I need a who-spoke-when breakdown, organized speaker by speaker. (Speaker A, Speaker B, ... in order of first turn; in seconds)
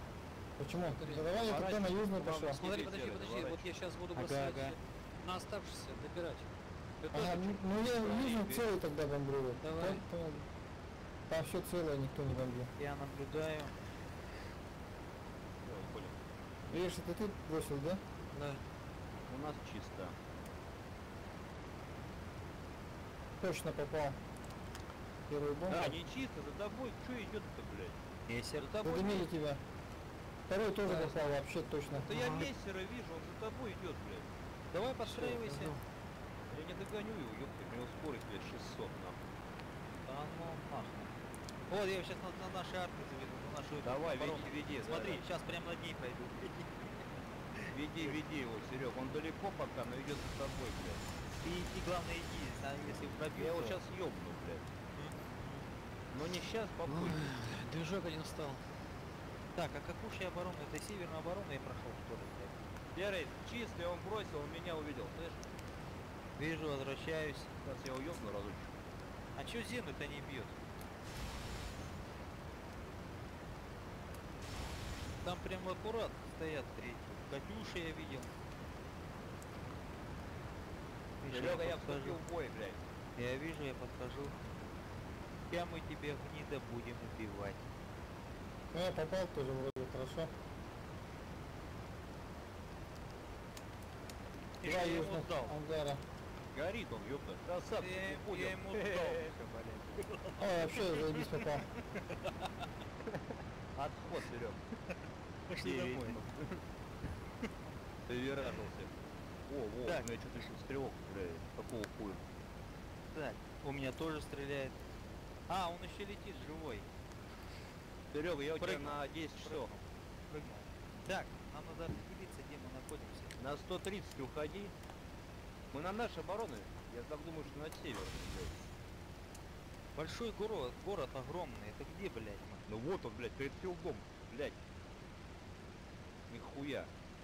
Speaker A: 0.6-2.6, 7.1-10.5, 11.3-12.7, 16.7-18.0, 23.4-24.2, 25.3-26.0, 28.8-29.6, 30.5-32.1, 88.7-90.3, 94.6-96.0, 100.4-101.7
Speaker B: 0.9-1.3, 2.5-6.5, 7.0-7.5, 9.6-10.0, 18.3-18.6, 30.9-31.1, 32.1-32.5, 35.2-35.8, 56.9-58.6
Speaker C: 1.4-3.7, 8.0-8.6, 15.6-16.2, 19.3-20.2, 25.7-28.0, 31.9-34.3, 36.5-39.2, 43.8-45.2, 47.7-51.1, 53.4-54.7, 56.1-57.3, 62.9-65.5, 67.6-68.8, 81.3-82.9, 96.5-99.3, 103.8-104.6, 105.6-106.6, 108.1-112.2, 118.1-119.8, 123.4-124.7, 125.7-128.7, 132.7-134.6, 136.3-136.9
Speaker D: 4.2-4.8, 12.8-13.8, 28.3-29.3, 34.7-35.8, 40.0-41.1, 41.7-48.2, 51.4-53.8, 54.9-55.7, 59.5-62.6, 66.4-67.5, 69.3-70.6, 75.2-78.3, 81.2-82.2, 83.2-84.4, 85.5-87.7, 94.6-95.5, 97.8-101.2, 101.9-102.6, 105.5-106.2, 109.8-110.5, 113.1-114.8, 115.5-116.9, 118.6-123.4, 129.9-132.7